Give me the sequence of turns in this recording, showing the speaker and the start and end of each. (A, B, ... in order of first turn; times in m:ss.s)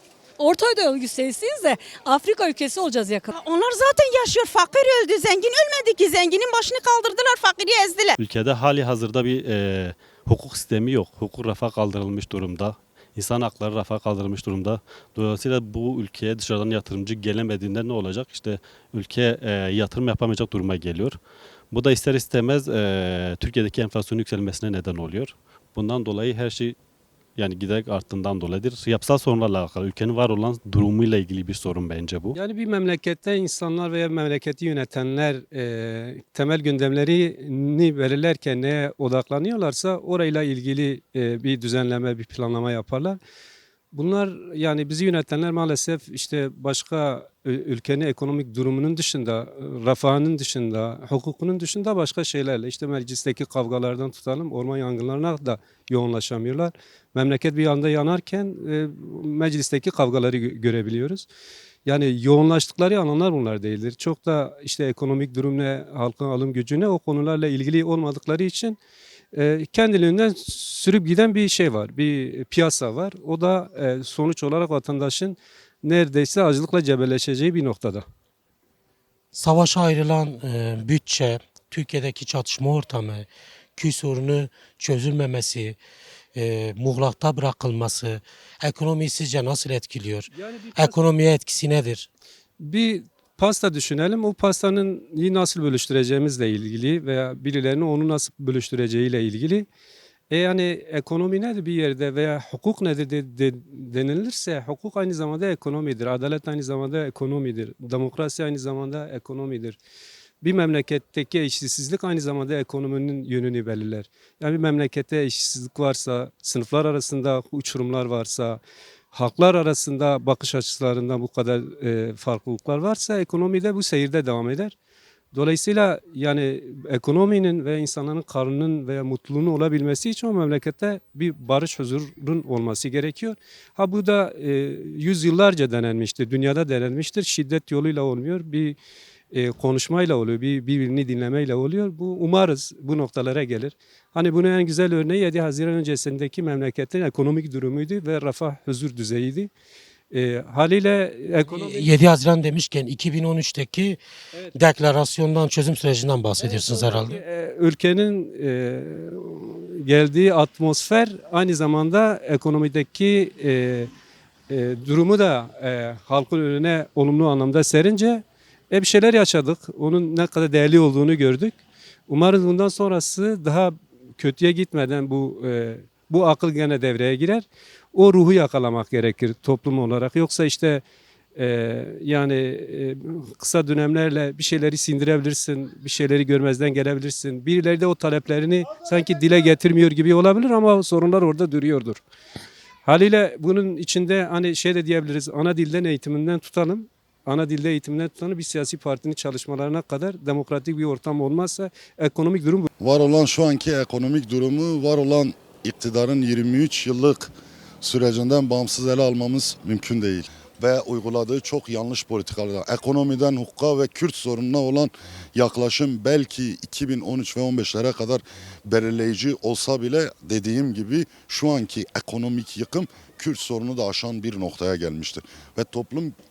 0:00.4-0:03.3 A
0:03.3-0:08.1 B
0:08.2-0:21.2 C
0:21.7-0:26.8 C
0:27.4-0:32.4 C
0:32.3-0:43.2 D
0:43.9-1:01.3 D
1:01.8-1:08.8 D
1:09.3-1:18.0 D
1:19.3-1:25.8 E
1:26.4-1:32.1 E
1:30.3-1:31.0 D
1:32.6-1:39.7 D
1:40.3-1:49.8 D
1:50.4-1:58.6 D
1:59.1-2:04.7 D
2:05.3-2:18.8 D
2:19.3-2:29.5 D
2:30.1-2:32.0 D
2:31.5-2:34.0 E
2:34.5-2:37.2 E
2:36.4-2:43.9 D
2:44.5-3:00.8 D
3:01.4-3:12.0 D
3:12.8-3:22.7 D
3:22.8-3:46.2 F